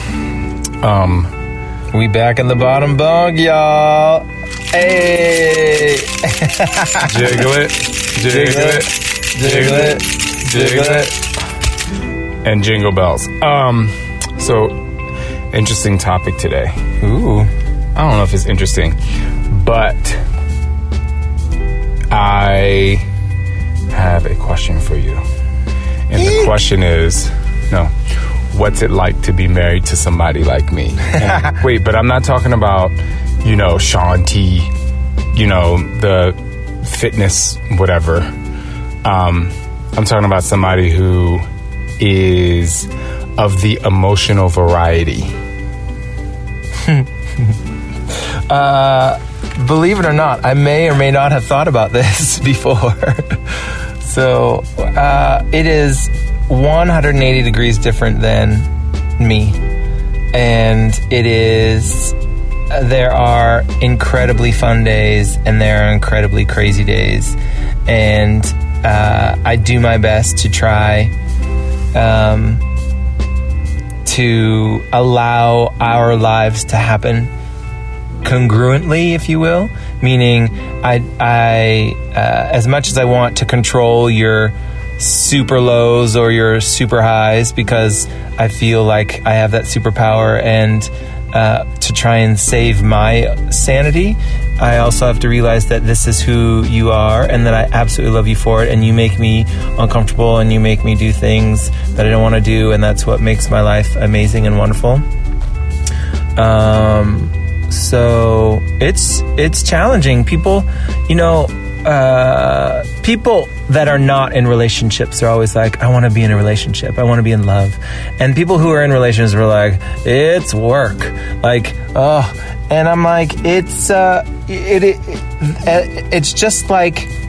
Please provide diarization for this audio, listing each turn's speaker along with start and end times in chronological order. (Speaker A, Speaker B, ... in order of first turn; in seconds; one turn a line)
Speaker A: 0.8-1.3
Speaker B: 1.9-7.5
Speaker A: 7.0-11.2
Speaker B: 8.2-11.1
Speaker A: 12.4-14.8
Speaker A: 15.5-16.8
Speaker B: 17.0-17.5
Speaker A: 17.9-19.0
Speaker A: 19.5-20.2
Speaker A: 22.1-23.1
Speaker A: 23.9-25.2
Speaker A: 26.1-27.9
Speaker B: 26.1-26.5
Speaker A: 28.5-34.7
Speaker A: 35.3-38.3
Speaker A: 39.0-41.5
Speaker A: 42.0-45.3
Speaker B: 46.8-47.6
Speaker B: 48.5-59.6
Speaker B: 60.3-62.1
Speaker B: 62.7-71.1
Speaker B: 71.9-72.6
Speaker B: 74.0-77.3
Speaker B: 78.2-105.0
Speaker B: 106.3-127.1